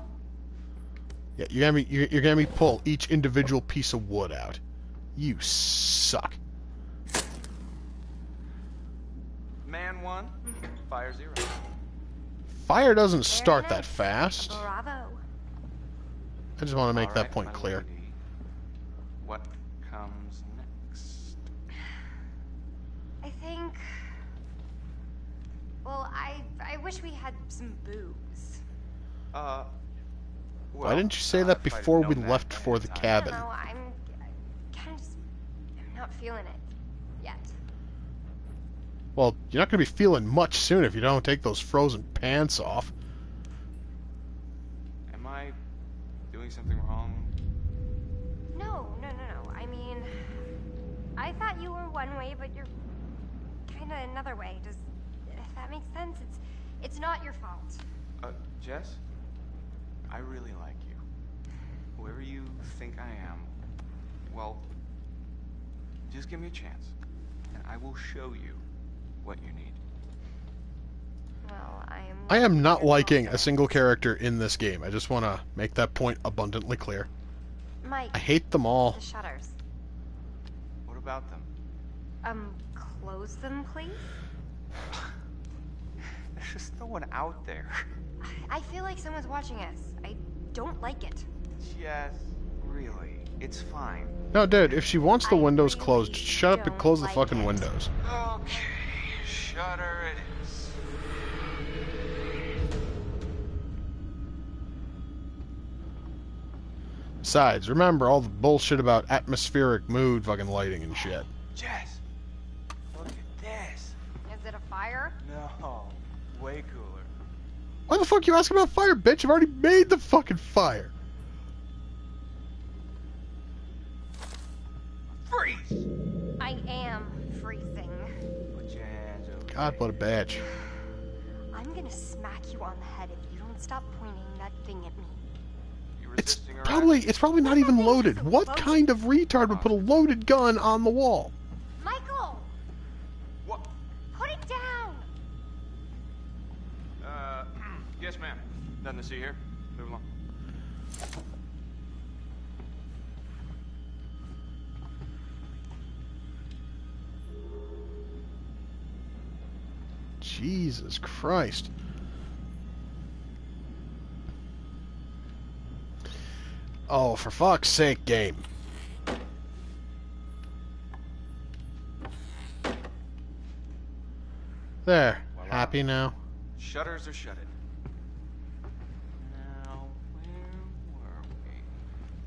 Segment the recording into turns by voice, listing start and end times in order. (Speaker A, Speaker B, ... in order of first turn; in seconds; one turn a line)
Speaker A: 1.4-4.6
Speaker A: 5.2-6.4
Speaker B: 9.6-11.7
Speaker A: 12.6-14.7
Speaker C: 13.3-15.2
Speaker A: 16.6-17.8
Speaker B: 16.9-18.2
Speaker B: 19.2-21.4
Speaker C: 23.2-23.8
Speaker C: 25.8-28.6
Speaker B: 29.3-29.7
Speaker B: 30.7-33.4
Speaker A: 30.8-33.5
Speaker C: 33.1-34.1
Speaker C: 34.7-35.2
Speaker C: 35.8-36.7
Speaker C: 37.2-37.5
Speaker A: 39.1-42.9
Speaker B: 45.1-45.6
Speaker B: 46.3-47.3
Speaker C: 48.5-50.3
Speaker C: 51.2-52.7
Speaker C: 53.7-57.8
Speaker B: 58.2-59.0
Speaker B: 60.1-61.0
Speaker B: 62.0-63.6
Speaker B: 64.3-64.7
Speaker B: 66.1-66.9
Speaker B: 67.5-68.6
Speaker B: 69.2-69.8
Speaker C: 71.4-73.7
Speaker A: 72.3-77.1
Speaker C: 77.8-79.5
Speaker A: 78.1-79.0
Speaker B: 80.8-81.5
Speaker C: 82.2-84.1
Speaker B: 86.3-87.9
Speaker C: 88.2-91.3
Speaker B: 91.6-94.2
Speaker A: 94.3-97.9
Speaker C: 95.2-97.7
Speaker B: 98.0-100.7
Speaker A: 107.2-111.3
Speaker B: 110.9-112.0
Speaker B: 112.9-114.0
Speaker C: 114.2-115.2
Speaker B: 115.2-117.1
Speaker A: 117.9-120.9
Speaker B: 125.1-125.8
Speaker C: 126.4-128.1
Speaker B: 128.5-129.9
Speaker A: 129.5-130.4
Speaker C: 131.5-135.2
Speaker B: 136.0-137.2
Speaker A: 136.2-141.3
Speaker C: 137.4-138.9
Speaker B: 139.4-139.8
Speaker C: 141.8-142.5
Speaker B: 143.4-143.7
Speaker C: 144.1-145.1
Speaker B: 147.0-150.1
Speaker A: 160.2-161.7
Speaker A: 166.9-168.4
Speaker A: 174.8-176.1
Speaker B: 175.3-177.5
Speaker B: 179.2-181.8